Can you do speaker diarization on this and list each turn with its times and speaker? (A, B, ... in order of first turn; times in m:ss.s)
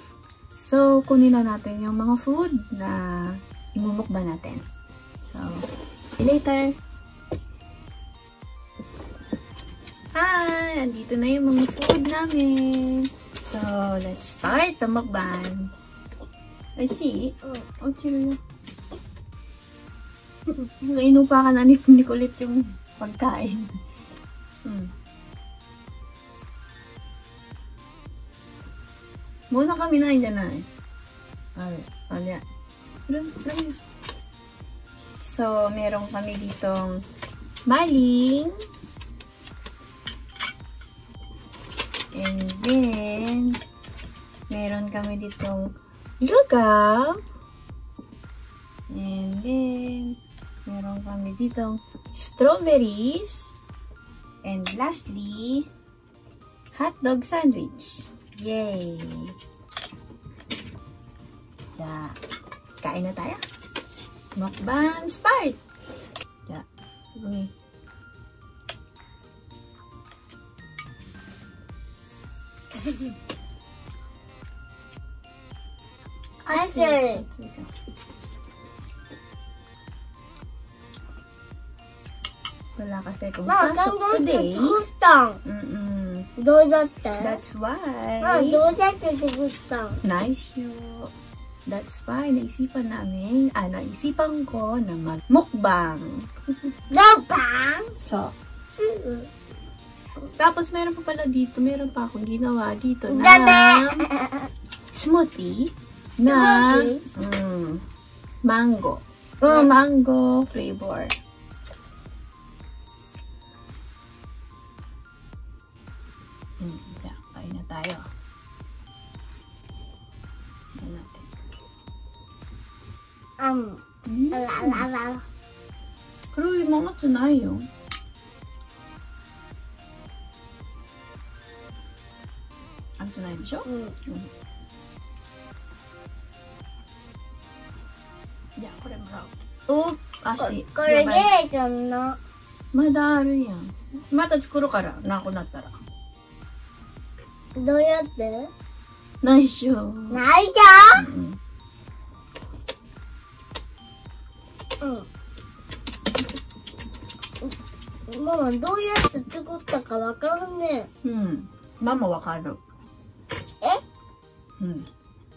0:00.5-0:04.6 A
0:05.3-0:06.8 A
0:10.1-0:15.7 A
0:16.8-0:18.4 A
0:20.8-0:23.8 A
0:24.6-0:24.9 A
0:29.5-0:30.7 A
0:31.6-0:32.4 A
0:33.1-0:33.8 A
0:35.2-0:37.0 A
0:37.6-0:38.6 A
0:42.1-0:43.6 A
0:44.5-0:47.2 A
0:48.9-0:53.6 A
0:54.4-0:55.7 A
0:56.7-0:59.4 A
1:01.8-1:02.2 A
1:02.8-1:03.4 A
1:04.4-1:05.6 A
1:06.5-1:07.5 A
1:16.4-1:17.7 A
1:16.5-1:17.2 B
1:22.8-1:24.8 A
1:23.5-1:25.4 B
1:25.4-1:26.3 A
1:26.4-1:27.4 B
1:27.2-1:28.6 A
1:28.2-1:30.0 B
1:30.0-1:31.1 A
1:31.6-1:36.3 A
1:36.9-1:37.9 B
1:38.0-1:38.3 A
1:38.8-1:39.3 B
1:40.3-1:44.1 A
1:43.1-1:44.5 B
1:44.9-1:47.8 A
1:46.2-1:47.0 B
1:48.4-1:51.1 A
1:56.6-1:58.1 A
2:00.8-2:01.3 A
2:03.4-2:05.2 B
2:04.0-2:04.8 A
2:06.3-2:07.7 A
2:13.0-2:14.3 A
2:13.6-2:14.0 B
2:18.6-2:21.3 A
2:20.4-2:22.2 B
2:22.7-2:25.7 A
2:27.6-2:28.5 B
2:29.2-2:30.2 A
2:30.1-2:31.0 B
2:30.9-2:31.4 A
2:34.8-2:35.1 B
2:38.1-2:40.9 B
2:41.0-2:42.6 A
2:44.6-2:44.9 A